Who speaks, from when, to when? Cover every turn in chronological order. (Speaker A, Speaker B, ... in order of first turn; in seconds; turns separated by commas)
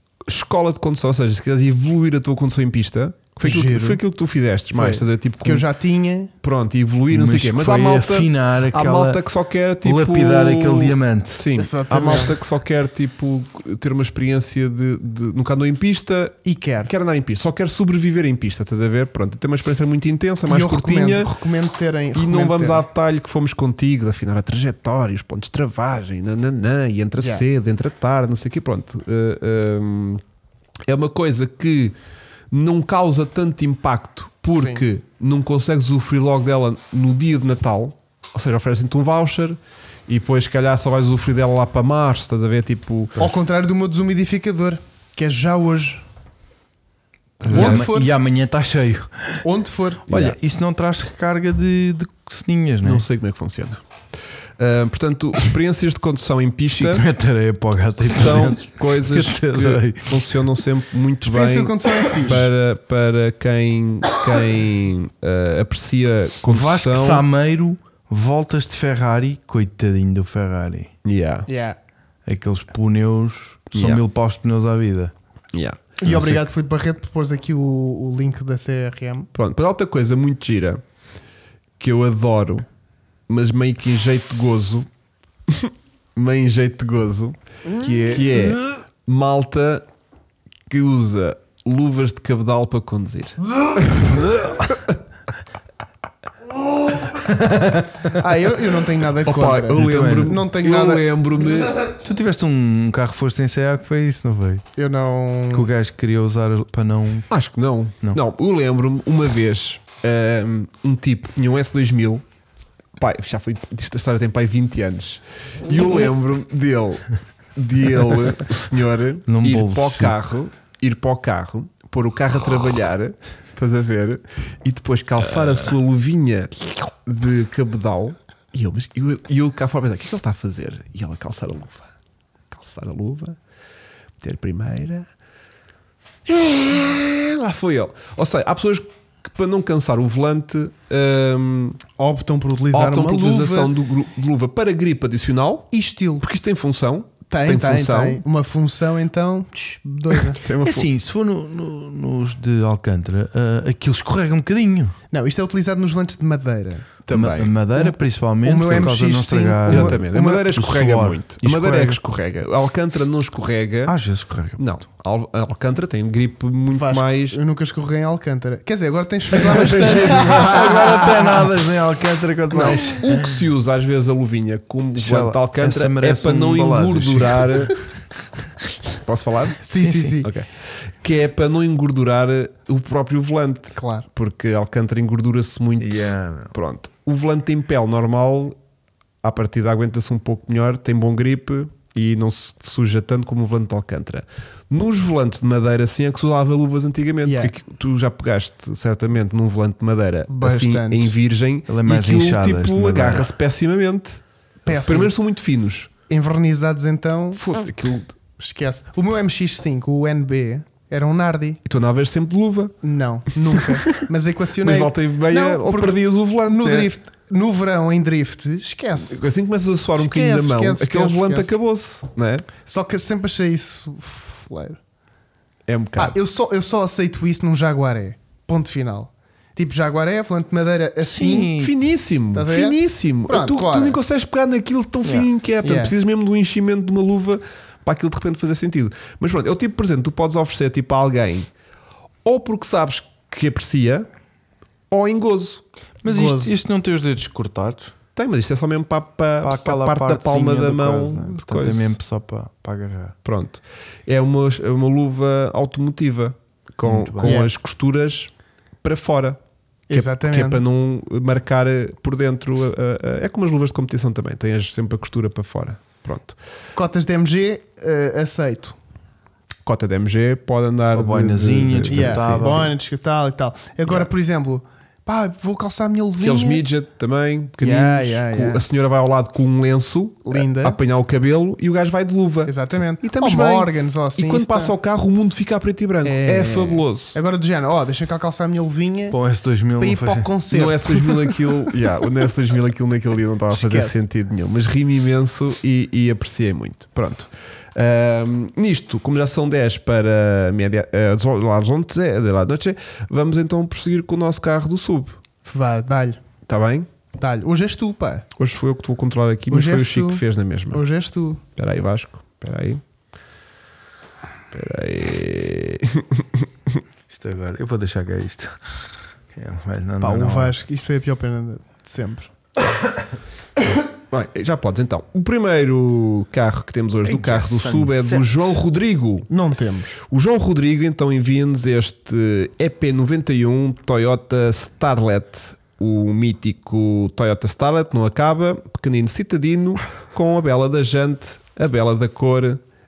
Speaker A: 0.3-5.7, Speaker B: 3.4-4.0, Speaker B: 4.7-6.3, Speaker A: 6.4-21.3, Speaker C: 7.1-9.2, Speaker C: 9.8-11.4, Speaker B: 11.6-12.4, Speaker B: 16.4-16.9, Speaker B: 20.5-22.9, Speaker A: 22.1-30.2, Speaker B: 27.2-27.4, Speaker A: 30.9-31.9, Speaker A: 32.5-43.3, Speaker B: 34.5-34.9, Speaker B: 43.2-46.0, Speaker A: 47.4-47.9, Speaker C: 47.5-49.4, Speaker B: 47.5-48.1, Speaker B: 49.4-50.1, Speaker C: 50.1-53.0, Speaker A: 50.1-50.4, Speaker A: 52.8-53.8, Speaker A: 54.6-57.0, Speaker C: 56.8-60.5, Speaker A: 58.0-67.2, Speaker B: 61.2-62.5, Speaker C: 66.5-70.9, Speaker A: 71.0-71.5, Speaker B: 71.5-71.8, Speaker C: 72.3-75.1, Speaker A: 73.7-74.0, Speaker A: 75.5-76.5, Speaker B: 76.0-79.3, Speaker A: 79.3-80.8, Speaker A: 81.8-82.7, Speaker A: 83.3-84.9, Speaker A: 85.5-89.9, Speaker B: 87.7-88.2, Speaker C: 88.1-88.7, Speaker A: 90.7-94.9, Speaker C: 94.1-94.7, Speaker C: 97.1-98.1, Speaker B: 98.1-101.0, Speaker A: 99.2-101.8, Speaker C: 99.8-100.4, Speaker C: 101.9-104.6, Speaker B: 104.8-105.7, Speaker C: 105.5-107.3, Speaker A: 107.3-112.2, Speaker A: 113.0-131.9, Speaker C: 119.3-120.2, Speaker A: 132.5-133.4, Speaker A: 134.2-135.1, Speaker A: 136.3-141.8, Speaker B: 142.0-143.7, Speaker A: 142.7-145.7, Speaker B: 145.7-146.3, Speaker A: 146.2-148.2, Speaker B: 147.3-150.4, Speaker A: 150.4-150.9, Speaker C: 150.6-154.9, Speaker B: 155.1-156.9, Speaker A: 157.1-157.5, Speaker C: 157.1-162.0, Speaker B: 157.7-160.4, Speaker A: 159.7-164.0, Speaker C: 163.9-164.7, Speaker A: 164.6-167.4, Speaker B: 166.7-171.1, Speaker A: 169.4-171.5, Speaker C: 169.9-173.4, Speaker A: 172.5-177.8, Speaker C: 174.9-177.7, Speaker A: 179.0-180.5, Speaker B: 179.6-180.3, Speaker A: 181.0-188.6, Speaker B: 183.8-184.1, Speaker C: 185.8-186.6, Speaker A: 189.2-205.9, Speaker B: 197.2-197.5, Speaker B: 200.3-201.1, Speaker C: 201.7-203.3, Speaker B: 204.7-205.1, Speaker B: 206.1-207.4, Speaker A: 207.4-208.2, Speaker B: 208.4-211.6, Speaker A: 211.7-212.8, Speaker B: 212.8-219.2, Speaker A: 213.4-213.8, Speaker A: 214.6-216.9, Speaker A: 219.1-222.5, Speaker B: 220.0-221.5, Speaker B: 222.7-224.8, Speaker A: 225.7-226.2, Speaker B: 226.0-231.6, Speaker C: 231.1-231.7, Speaker A: 231.3-241.5, Speaker B: 232.3-234.0, Speaker B: 235.6-235.9, Speaker A: 242.2-244.1, Speaker A: 244.9-245.6, Speaker C: 246.0-247.9, Speaker B: 246.1-246.5, Speaker A: 248.2-252.0, Speaker C: 249.4-253.2, Speaker A: 253.2-258.3, Speaker C: 256.8-257.4, Speaker B: 257.2-257.5, Speaker A: 258.8-259.4, Speaker B: 259.9-260.6, Speaker A: 259.9-266.4, Speaker B: 266.8-268.8, Speaker A: 269.6-272.7, Speaker C: 270.9-272.7, Speaker B: 271.9-276.6, Speaker A: 276.2-287.2, Speaker B: 277.6-278.6, Speaker B: 280.2-280.8, Speaker B: 282.5-284.7, Speaker B: 286.0-289.2, Speaker C: 289.1-290.3, Speaker B: 289.8-291.4, Speaker A: 290.5-305.2, Speaker B: 293.5-294.0, Speaker B: 305.4-306.2, Speaker A: 306.5-306.9, Speaker B: 307.2-308.2, Speaker A: 308.4-310.8, Speaker B: 309.5-311.4, Speaker A: 311.6-312.8, Speaker A: 314.5-316.8, Speaker C: 317.1-318.8, Speaker C: 319.3-320.6, Speaker B: 320.0-322.3, Speaker A: 324.1-329.3, Speaker C: 327.1-328.6, Speaker B: 329.3-330.0, Speaker A: 330.0-342.6